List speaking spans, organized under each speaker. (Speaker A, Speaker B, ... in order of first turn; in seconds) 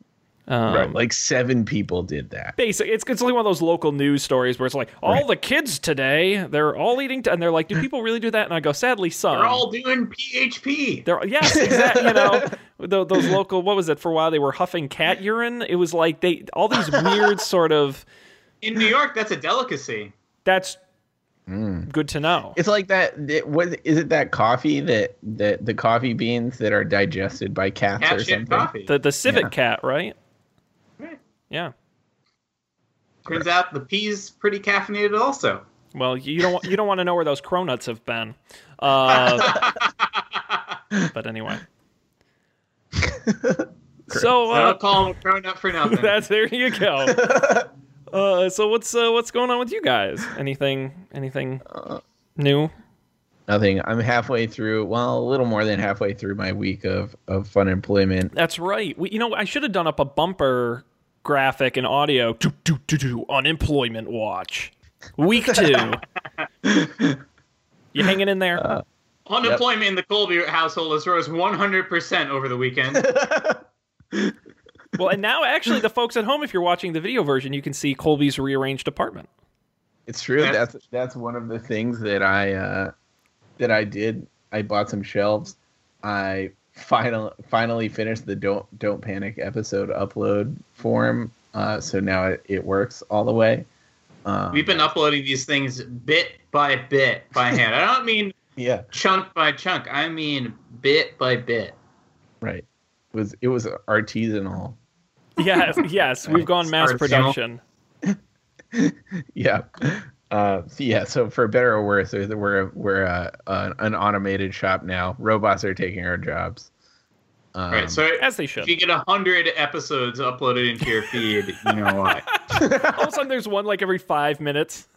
Speaker A: 0.5-1.0, 2.6-9.6, 11.1-18.1, 20.4-20.8, 21.9-22.6, 28.9-30.1, 35.9-39.7, 41.0-41.6, 44.1-44.9, 45.8-47.2, 48.1-51.6, 52.4-52.7, 58.3-66.0, 67.9-68.6, 75.0-79.3, 105.4-107.6, 118.2-118.7, 122.1-124.9
Speaker B: 0.7-2.5, 11.5-12.5, 16.8-17.3, 21.5-21.9, 22.5-28.7, 43.0-44.3, 47.1-47.7, 51.7-52.0, 53.5-58.3, 66.6-67.2, 68.6-68.8, 72.9-74.3, 80.1-82.9, 83.6-93.7, 94.2-94.9, 98.5-98.8, 102.4-104.8, 108.7-116.7, 117.5-118.0, 122.5-123.1
Speaker C: 9.3-11.1, 18.6-20.1, 28.0-28.9, 33.2-35.6, 39.1-40.6, 44.5-46.2, 69.3-73.1, 94.5-98.3, 98.9-101.8, 106.3-107.3, 117.7-122.2